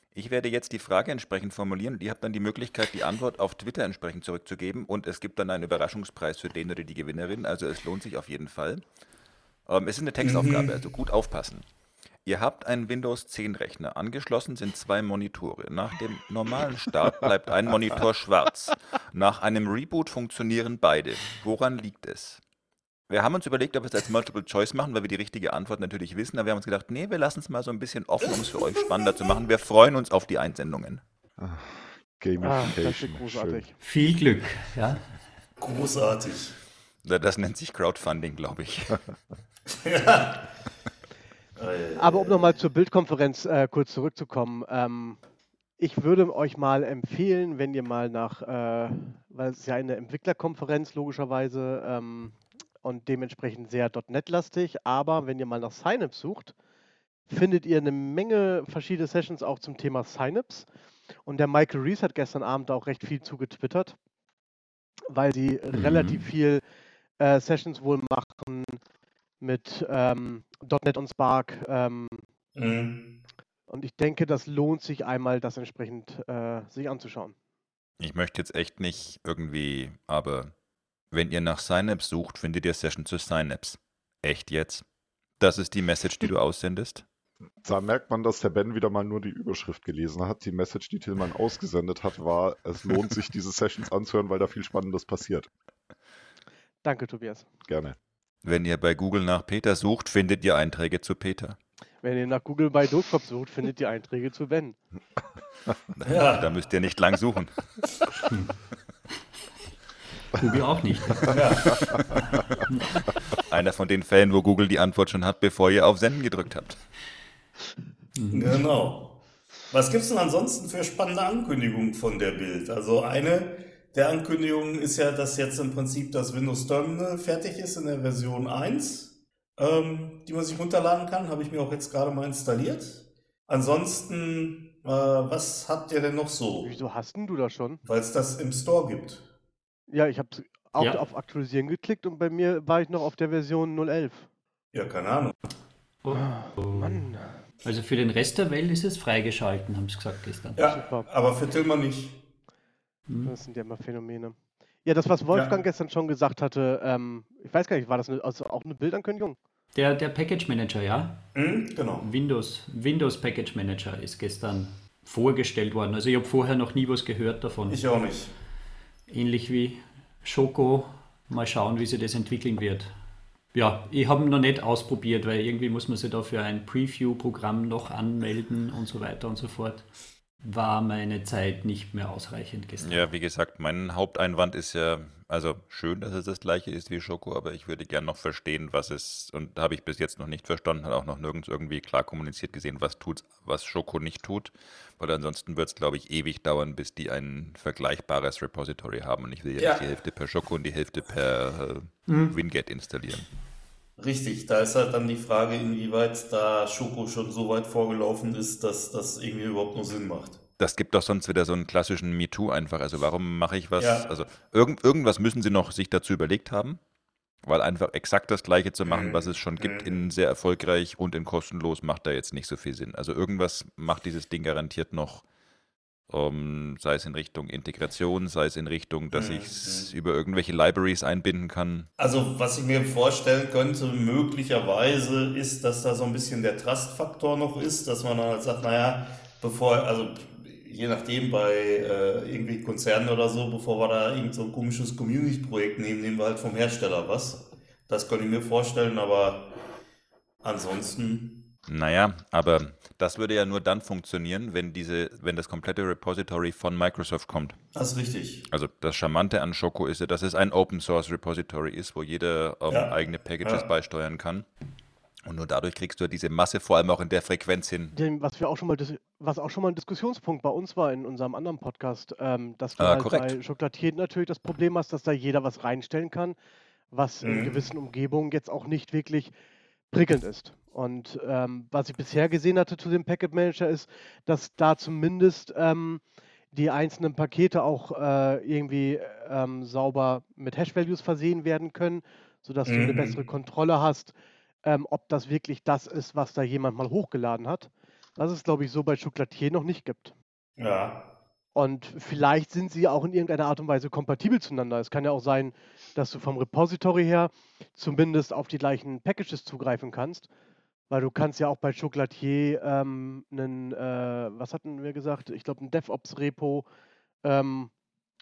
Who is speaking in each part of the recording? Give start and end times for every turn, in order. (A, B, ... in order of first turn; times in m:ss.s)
0:00.1-0:08.8 A
0:09.7-0:11.7 A
0:10.2-0:10.8 B
0:12.2-0:22.4 A
0:23.1-0:31.0 A
0:31.4-0:33.7 C
0:32.4-0:33.7 D
0:33.8-0:35.0 E
0:35.6-0:36.6 B
0:37.0-0:39.0 A
0:39.8-0:40.4 B
0:41.6-0:42.6 B
0:42.0-0:45.2 D
0:45.8-0:56.5 D
0:57.3-1:00.7 D
1:01.2-1:04.0 D
1:05.1-1:06.6 D
1:05.7-1:06.3 E
1:07.2-1:08.8 D
1:09.4-1:12.2 D
1:12.6-1:13.2 B
1:13.7-1:17.4 D
1:18.0-1:20.5 A
1:21.1-1:24.8 A
1:25.4-1:27.0 A
1:27.6-1:35.5 C
1:36.8-1:37.5 D
1:37.7-1:38.0 C
1:38.4-1:41.6 A
1:42.0-1:44.8 D
1:46.0-1:47.6 A
1:46.1-1:46.5 B
1:50.4-1:51.4 E
1:51.3-1:51.8 B
1:53.5-1:56.8 A
1:58.2-1:58.6 E
1:58.3-1:59.2 B
1:59.7-2:16.7 B
2:16.6-2:17.8 D
2:17.8-2:19.3 B
2:19.9-2:24.3 D
2:24.7-2:25.4 B
2:26.0-2:27.1 E
2:26.1-2:27.3 D
2:27.6-2:30.6 E
2:30.6-2:32.2 B
2:30.7-2:31.1 D
2:33.1-2:33.3 E
2:33.2-2:39.4 D
2:35.3-2:35.6 B
2:39.8-2:41.2 E
2:41.4-2:42.1 B
2:42.0-2:47.8 E
2:47.7-2:48.3 B
2:49.1-2:52.9 E
2:53.5-2:59.9 E
3:00.4-3:03.1 E
3:02.8-3:23.3 A
3:19.6-3:19.9 B
3:22.1-3:22.4 E
3:24.0-3:30.4 B
3:30.6-3:36.8 A
3:33.8-3:34.2 B
3:37.4-3:45.2 A
3:38.9-3:40.0 B
3:46.1-3:51.9 A
3:49.1-3:49.9 B
3:52.0-4:09.5 B
4:10.4-4:11.5 B
4:11.7-4:17.6 A
4:17.7-4:18.5 B
4:18.5-4:24.5 A
4:22.7-4:23.7 B
4:25.3-4:27.9 A
4:27.9-4:36.4 D
4:32.8-4:33.4 A
4:36.9-4:39.3 D
4:37.2-4:37.7 B
4:39.9-5:00.1 D
4:52.7-4:53.2 B
5:00.6-5:01.1 B
5:01.6-5:10.3 D
5:10.9-5:16.7 D
5:17.2-5:17.7 D